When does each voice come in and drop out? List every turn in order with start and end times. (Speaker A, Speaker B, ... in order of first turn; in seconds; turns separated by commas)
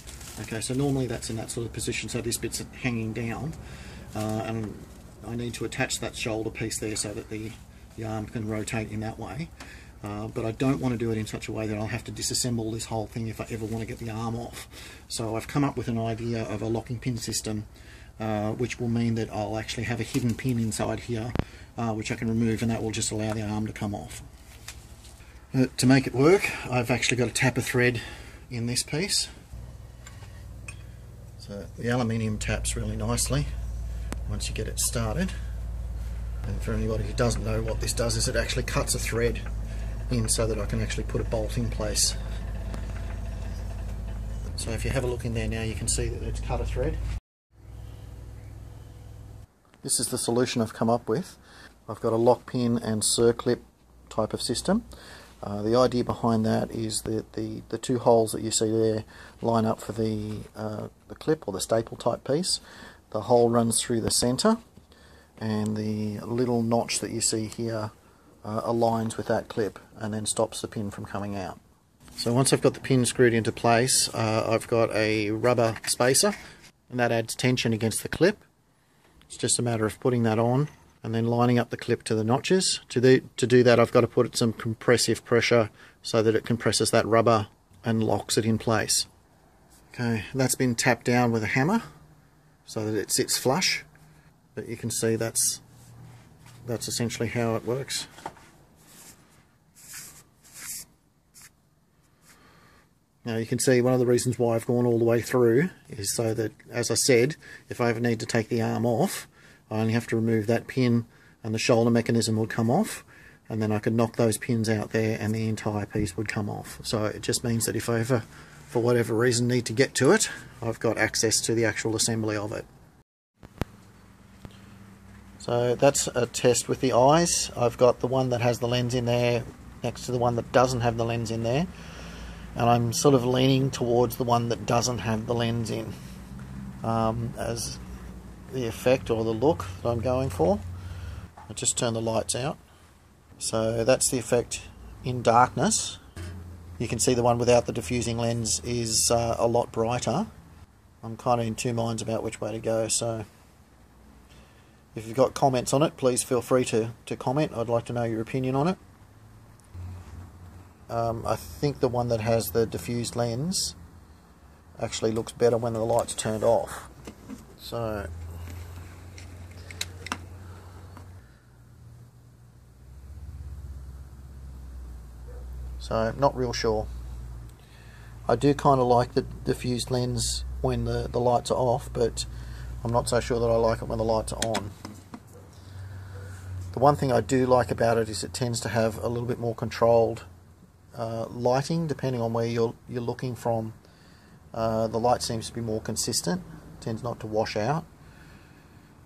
Speaker A: 0.4-3.6, Speaker A: 4.1-17.7, Speaker A: 18.2-24.3, Speaker A: 25.5-29.3, Speaker A: 31.4-33.5, Speaker A: 34.3-35.4, Speaker A: 36.5-39.5, Speaker A: 40.1-42.2, Speaker A: 44.5-47.0, Speaker A: 49.8-54.9, Speaker A: 55.4-64.6, Speaker A: 65.4-67.9, Speaker A: 68.4-71.6, Speaker A: 72.2-76.3, Speaker A: 76.9-78.4, Speaker A: 79.3-89.1, Speaker A: 89.9-91.8, Speaker A: 92.7-93.9, Speaker A: 94.5-95.6, Speaker A: 96.7-98.1, Speaker A: 103.2-122.7, Speaker A: 125.4-131.7, Speaker A: 132.6-135.9, Speaker A: 136.8-137.8, Speaker A: 138.5-140.6, Speaker A: 141.5-142.6, Speaker A: 143.4-146.0, Speaker A: 146.8-150.3, Speaker A: 151.0-153.3, Speaker A: 154.9-158.8, Speaker A: 160.9-163.8, Speaker A: 164.8-166.9, Speaker A: 167.6-168.1, Speaker A: 175.8-176.9, Speaker A: 178.3-182.3, Speaker A: 182.8-184.7, Speaker A: 186.7-190.3, Speaker A: 190.9-193.8, Speaker A: 194.5-197.9